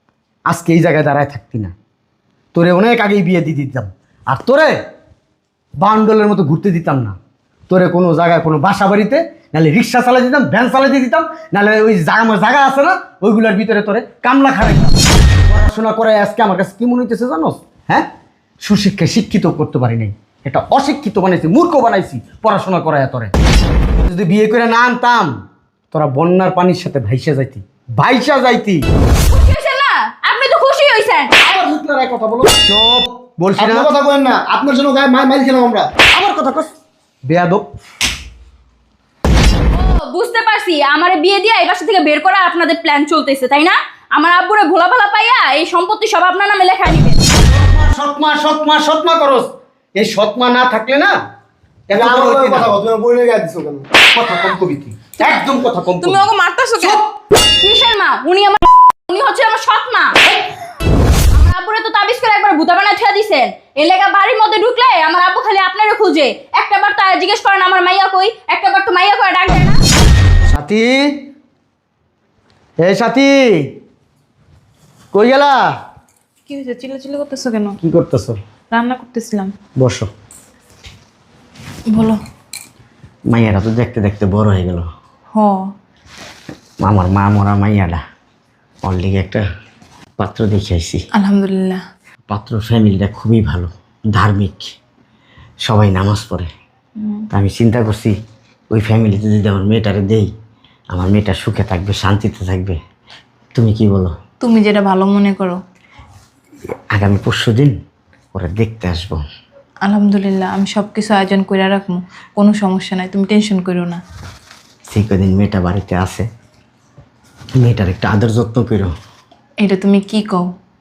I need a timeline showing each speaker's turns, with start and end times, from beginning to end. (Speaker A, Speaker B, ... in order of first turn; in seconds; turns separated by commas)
Speaker A: 0.5-1.7, Speaker A: 2.5-4.8, Speaker A: 5.8-7.2, Speaker A: 7.7-18.1, Speaker A: 18.6-23.3, Speaker A: 24.0-25.3, Speaker A: 25.9-28.8, Speaker B: 29.3-31.3, Speaker A: 31.4-33.9, Speaker C: 33.6-35.9, Speaker A: 36.1-36.7, Speaker A: 37.3-37.6, Speaker B: 39.7-47.2, Speaker A: 47.4-51.1, Speaker A: 51.9-52.8, Speaker C: 51.9-53.8, Speaker A: 54.1-57.1, Speaker D: 56.0-57.0, Speaker B: 57.6-60.4, Speaker B: 61.3-69.8, Speaker A: 70.5-71.2, Speaker A: 72.8-73.7, Speaker A: 75.1-75.6, Speaker D: 76.5-77.8, Speaker A: 77.8-78.4, Speaker D: 78.7-79.5, Speaker A: 79.8-80.1, Speaker D: 81.9-82.2, Speaker A: 83.3-84.9, Speaker D: 85.3-85.6, Speaker A: 86.8-88.0, Speaker A: 88.8-89.4, Speaker A: 90.2-91.0, Speaker D: 91.2-91.8, Speaker A: 92.3-94.7, Speaker A: 95.7-96.5, Speaker D: 97.0-97.3, Speaker A: 97.3-98.2, Speaker A: 98.7-100.3, Speaker A: 100.9-102.8, Speaker A: 103.5-104.2, Speaker D: 104.4-105.6, Speaker A: 106.9-107.8, Speaker A: 108.3-109.2, Speaker D: 109.8-114.0, Speaker A: 114.9-116.3, Speaker A: 117.6-118.9, Speaker D: 119.6-120.5